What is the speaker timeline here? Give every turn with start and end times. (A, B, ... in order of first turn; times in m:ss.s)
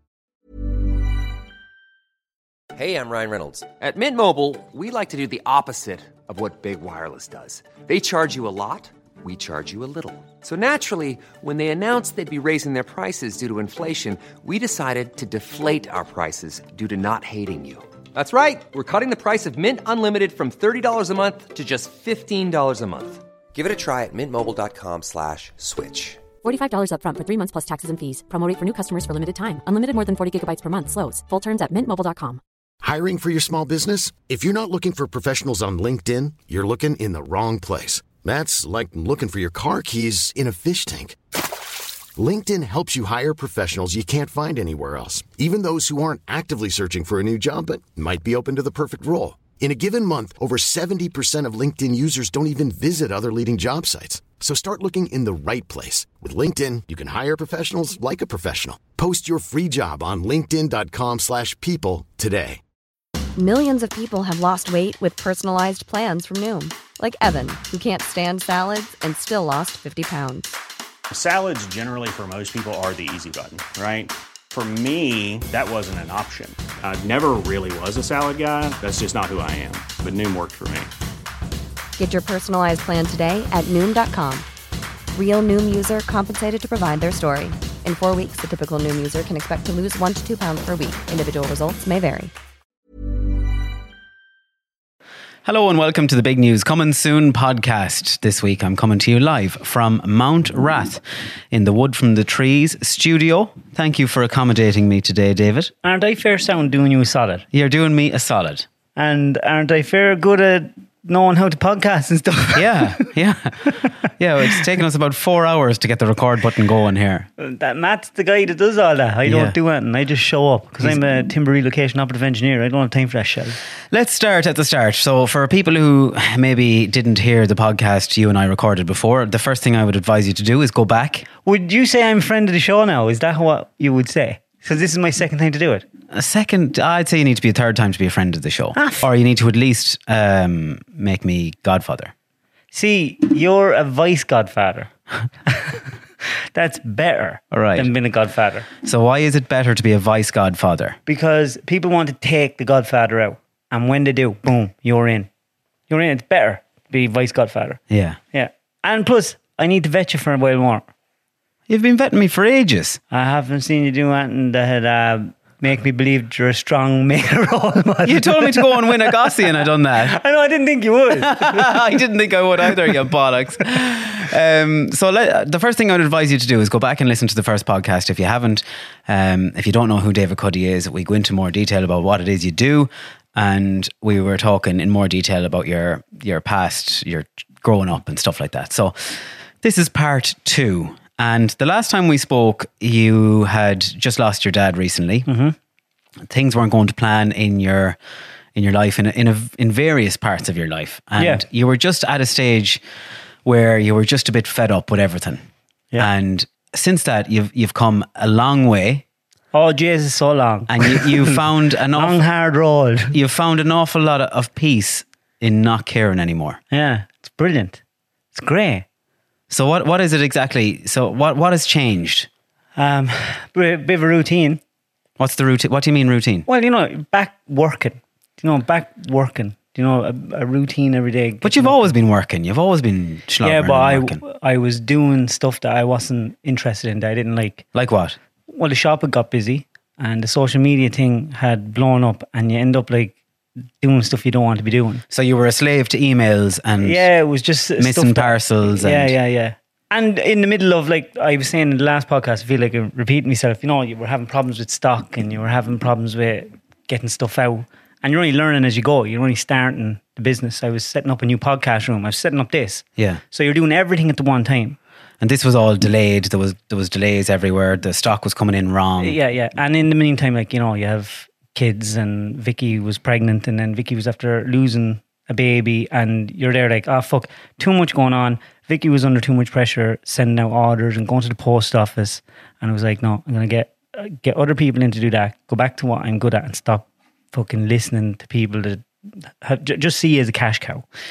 0:02.8-0:26.2 A
0:26.4-0:32.4 B
0:32.8-0:41.2 C
0:42.2-1:02.6 C
1:03.4-1:10.6 D
1:11.1-1:20.9 E
1:22.0-1:24.5 D
1:25.1-1:32.3 D
1:35.4-1:45.7 F
1:45.8-1:47.5 G
1:47.5-1:48.7 F
1:49.0-1:53.0 G
1:52.5-1:57.3 F
1:57.4-2:03.6 G
1:59.2-1:59.6 F
2:03.9-2:11.3 F
2:11.4-2:15.8 G
2:16.1-2:22.1 F
2:18.8-2:19.0 G
2:22.7-2:24.9 G
2:25.5-2:25.9 G
2:26.5-2:28.7 G
2:27.5-2:27.9 F
2:28.8-2:31.0 F
2:31.1-2:35.3 G
2:35.9-2:37.8 G
2:37.9-2:38.2 F
2:38.3-2:40.9 G
2:41.7-2:43.0 F
2:43.1-2:51.8 G
2:48.0-2:50.2 F
2:51.1-3:15.3 F
3:15.3-3:15.6 G
3:16.3-3:18.0 F
3:18.6-3:22.8 F
3:21.2-3:21.4 G
3:23.4-3:25.4 F
3:26.0-3:29.0 F
3:29.5-3:31.4 G
3:30.7-3:32.2 F
3:32.0-3:33.2 G
3:33.1-3:36.6 F
3:36.7-3:37.8 G
3:38.3-3:38.8 G
3:39.5-3:42.3 F
3:42.8-3:44.6 G
3:45.2-3:46.5 F
3:46.5-3:51.9 G
3:51.4-3:54.2 F
3:53.4-3:57.6 G
3:57.7-3:58.2 F
3:58.5-4:03.2 G
4:03.8-4:05.0 G
4:05.1-4:07.1 F
4:06.8-4:24.8 G
4:07.8-4:09.2 F
4:23.0-4:23.2 F
4:25.2-4:29.2 F
4:29.0-4:50.8 G